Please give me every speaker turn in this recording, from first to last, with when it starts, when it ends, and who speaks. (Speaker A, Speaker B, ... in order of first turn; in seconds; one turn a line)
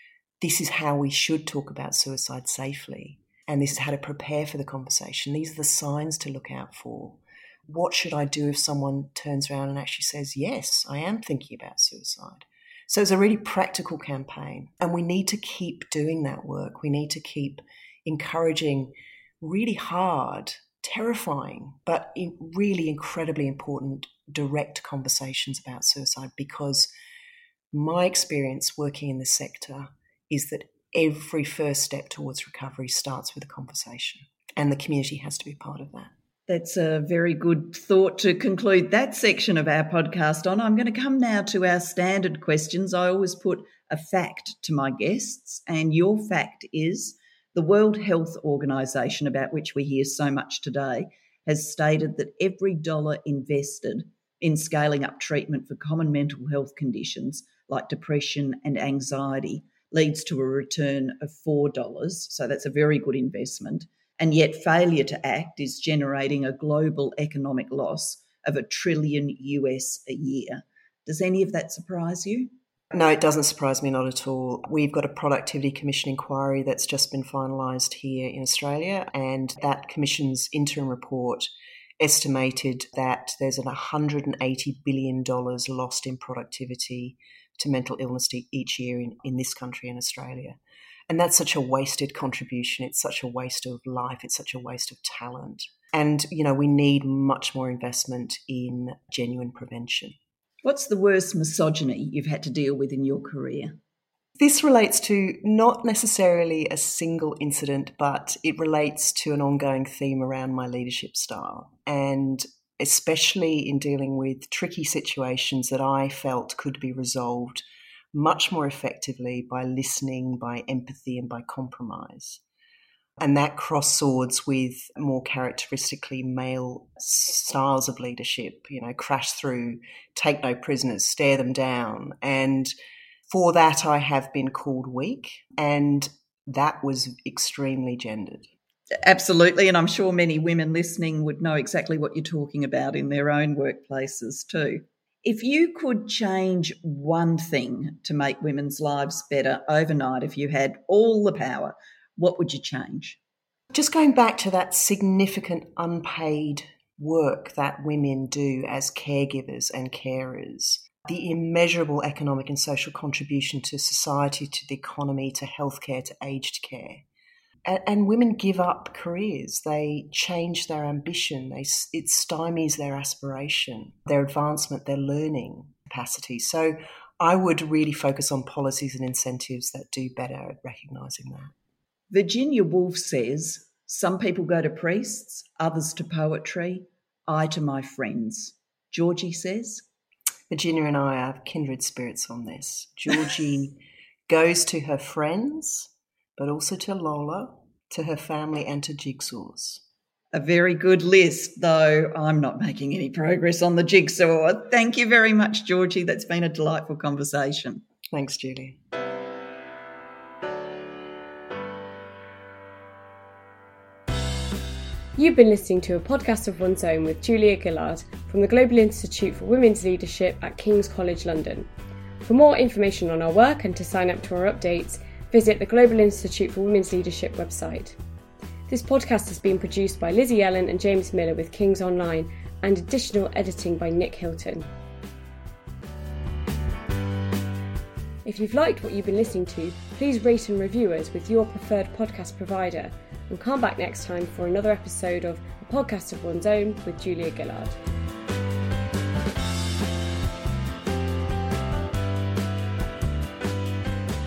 Speaker A: 0.4-26.9
Speaker A: 27.7-36.1
Speaker B: 36.5-72.5
Speaker A: 72.9-81.5
Speaker A: 82.0-100.1
Speaker B: 100.6-103.8
Speaker A: 104.4-122.4
Speaker A: 123.2-132.7
Speaker A: 133.3-138.5
Speaker B: 139.0-153.2
Speaker A: 153.7-167.0
Speaker A: 167.6-181.5
Speaker B: 182.1-189.8
Speaker A: 190.5-199.8
Speaker B: 200.3-207.8
Speaker A: 208.1-208.8
Speaker C: 215.2-221.7
Speaker C: 222.2-227.9
Speaker C: 228.7-234.7
Speaker C: 238.2-247.8